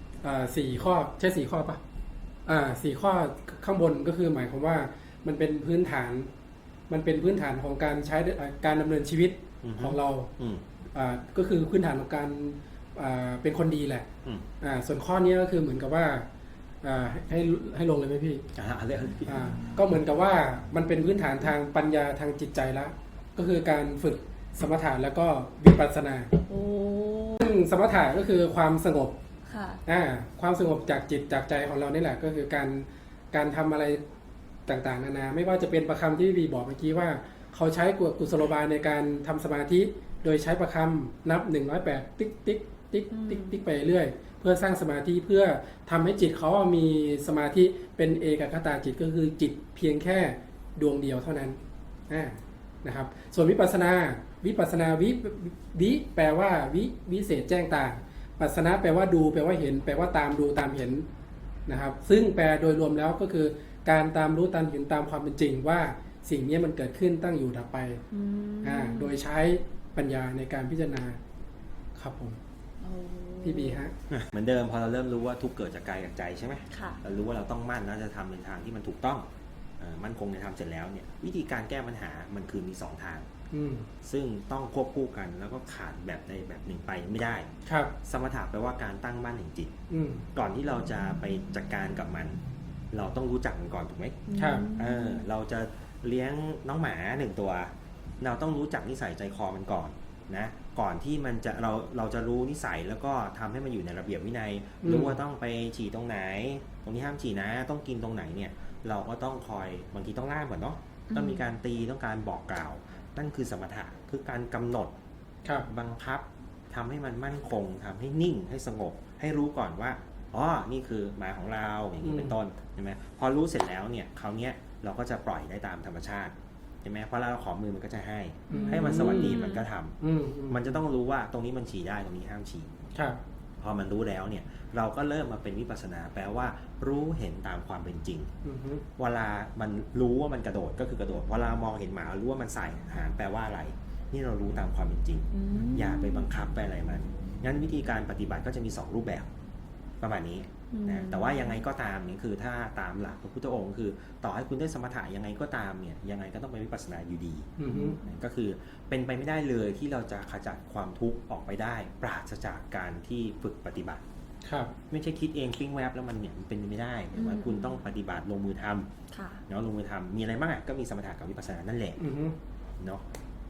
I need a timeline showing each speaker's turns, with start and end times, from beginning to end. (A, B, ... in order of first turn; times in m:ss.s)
0:00.2-0:01.8 A
0:02.5-0:06.3 A
0:06.9-0:10.3 A
0:09.6-0:10.6 B
0:10.9-0:14.1 A
0:14.6-0:16.3 A
0:16.8-0:18.4 A
0:18.6-0:19.5 B
0:19.3-0:26.3 A
0:26.4-0:27.5 C
0:27.4-0:29.2 A
0:29.5-0:29.8 C
0:29.9-0:34.0 A
0:34.7-1:01.0 A
0:43.1-0:43.6 C
1:01.7-1:08.0 A
1:08.1-1:09.2 C
1:08.6-1:11.2 A
1:12.0-1:12.4 A
1:12.8-1:13.8 C
1:13.4-1:13.9 A
1:14.1-1:19.3 B
1:16.7-1:17.0 C
1:19.8-1:23.3 B
1:23.5-1:23.9 A
1:24.0-1:27.5 B
1:27.7-1:27.9 A
1:28.0-1:29.7 B
1:29.9-1:30.2 A
1:30.4-1:32.4 B
1:32.9-1:34.2 B
1:34.3-1:35.2 C
1:34.4-1:34.7 A
1:34.8-1:54.9 B
1:44.8-1:45.2 A
1:51.1-1:51.4 C
1:55.7-2:10.0 B
2:02.0-2:02.4 A
2:08.5-2:09.4 A
2:08.5-2:09.6 C
2:10.0-2:10.8 A
2:10.5-2:12.9 B
2:13.0-2:13.2 A
2:13.6-2:18.3 B
2:18.4-2:18.8 A
2:19.0-2:29.3 B
2:25.3-2:26.2 C
2:30.0-2:44.0 B
2:30.7-2:31.6 C
2:37.6-2:38.0 A
2:37.7-2:38.0 C
2:44.4-2:44.7 A
2:44.9-2:48.9 B
2:47.2-2:47.7 C
2:49.1-2:49.4 C
2:49.5-2:52.0 B
2:52.0-2:52.4 A